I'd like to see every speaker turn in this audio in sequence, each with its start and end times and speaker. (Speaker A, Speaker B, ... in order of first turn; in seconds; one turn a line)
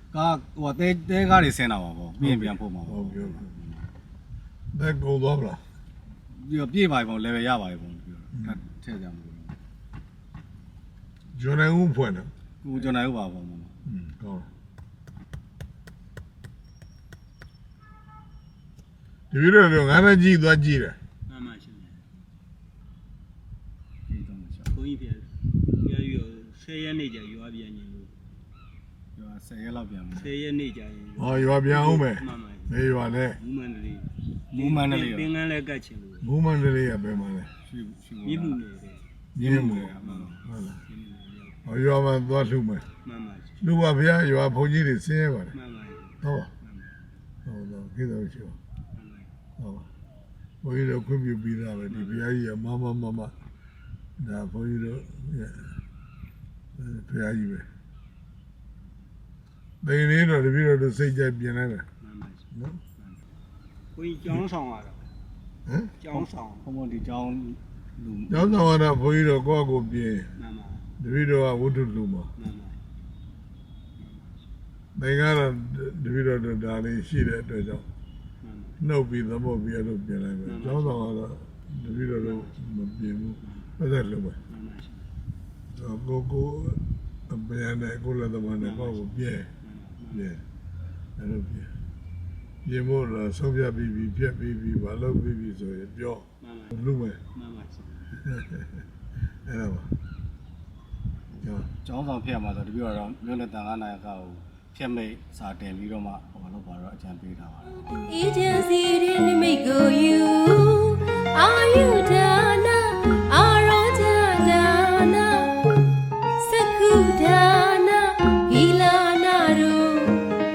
Speaker A: 0.1-3.9
Speaker B: 2.2-3.5
Speaker B: 4.7-5.6
Speaker A: 6.3-9.5
Speaker B: 11.3-12.3
Speaker A: 12.6-13.7
Speaker B: 13.9-14.5
Speaker B: 19.3-21.0
Speaker C: 21.3-22.0
Speaker A: 24.1-24.7
Speaker C: 24.7-25.3
Speaker C: 25.8-28.1
Speaker A: 29.2-30.4
Speaker C: 30.1-32.8
Speaker B: 31.2-33.4
Speaker C: 33.4-36.3
Speaker A: 34.5-35.4
Speaker B: 36.2-37.5
Speaker A: 37.6-38.6
Speaker C: 38.2-39.0
Speaker B: 39.4-40.8
Speaker A: 39.4-40.4
Speaker C: 40.0-41.6
Speaker B: 41.6-42.9
Speaker C: 43.0-43.6
Speaker B: 43.6-45.5
Speaker C: 45.5-47.0
Speaker B: 46.2-46.5
Speaker B: 47.5-48.6
Speaker C: 48.9-49.3
Speaker B: 49.6-49.9
Speaker B: 50.6-53.3
Speaker C: 51.9-52.2
Speaker B: 54.2-55.7
Speaker B: 56.8-57.7
Speaker B: 59.8-61.9
Speaker C: 62.0-62.5
Speaker B: 62.5-62.8
Speaker C: 64.0-65.1
Speaker B: 65.7-66.0
Speaker C: 66.0-66.7
Speaker A: 66.1-68.8
Speaker B: 68.3-70.3
Speaker C: 70.4-70.9
Speaker B: 71.0-72.3
Speaker C: 72.4-72.8
Speaker C: 74.0-74.5
Speaker B: 75.0-77.8
Speaker C: 78.4-78.8
Speaker B: 78.8-84.4
Speaker C: 80.5-81.1
Speaker C: 82.2-82.6
Speaker C: 84.5-85.0
Speaker B: 85.8-89.5
Speaker C: 88.6-90.2
Speaker B: 90.1-90.4
Speaker B: 91.2-91.7
Speaker B: 92.7-97.2
Speaker C: 96.4-96.7
Speaker C: 97.3-98.1
Speaker B: 98.2-98.8
Speaker B: 99.5-99.9
Speaker B: 101.4-101.7
Speaker A: 101.8-108.1
Speaker D: 108.0-115.5
Speaker D: 116.4-120.2